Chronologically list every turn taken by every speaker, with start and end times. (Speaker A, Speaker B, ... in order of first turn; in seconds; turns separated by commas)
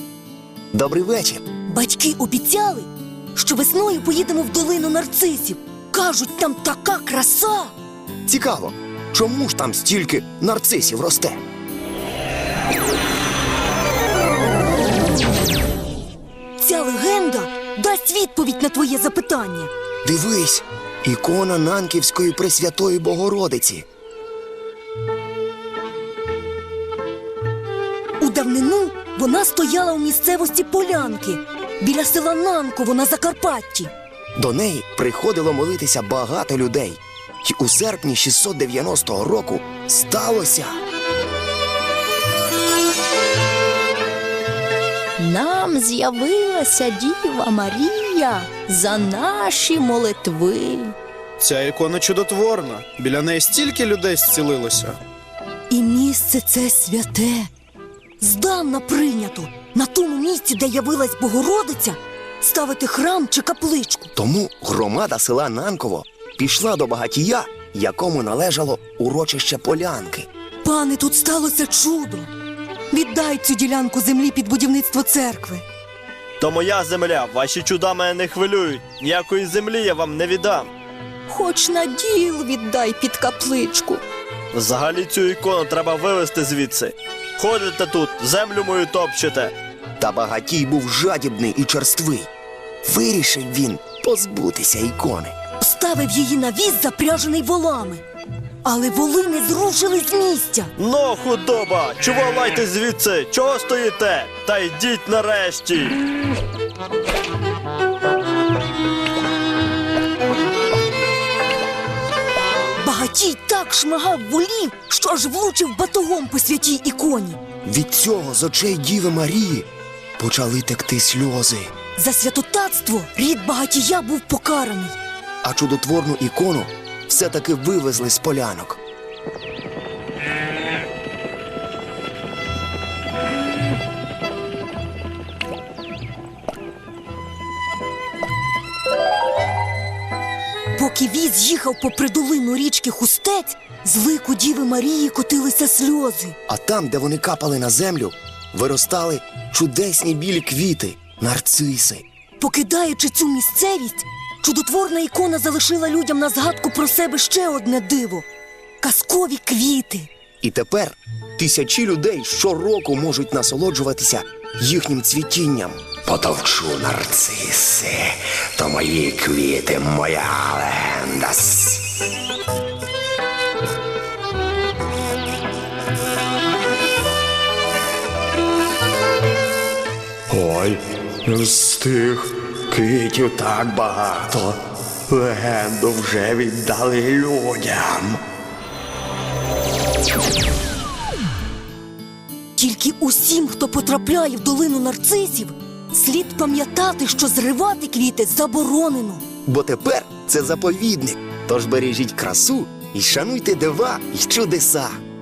Speaker A: 0.7-1.4, Speaker B: 1.7-7.7, Speaker A: 8.3-11.4, Speaker B: 16.6-19.7, Speaker A: 20.1-23.9, Speaker B: 28.2-33.9, Speaker A: 34.4-40.8, Speaker B: 45.2-50.9, Speaker C: 51.4-55.0, Speaker B: 55.7-57.5, Speaker B: 58.2-64.1, Speaker A: 64.2-70.3, Speaker B: 70.6-72.3, Speaker B: 72.9-75.6, Speaker D: 76.4-80.7, Speaker B: 81.3-84.0, Speaker D: 84.5-89.5, Speaker A: 90.0-92.3, Speaker A: 92.8-95.3, Speaker B: 95.6-98.0, Speaker B: 98.6-100.7, Speaker D: 100.8-106.0, Speaker B: 112.8-117.4, Speaker A: 117.7-121.7, Speaker B: 122.0-125.0, Speaker A: 125.4-128.8, Speaker B: 140.8-146.3, Speaker A: 146.5-152.1, Speaker B: 152.4-158.3, Speaker B: 158.8-160.1, Speaker A: 160.4-171.9, Speaker A: 180.3-188.2, Speaker B: 192.6-199.2, Speaker A: 199.5-205.0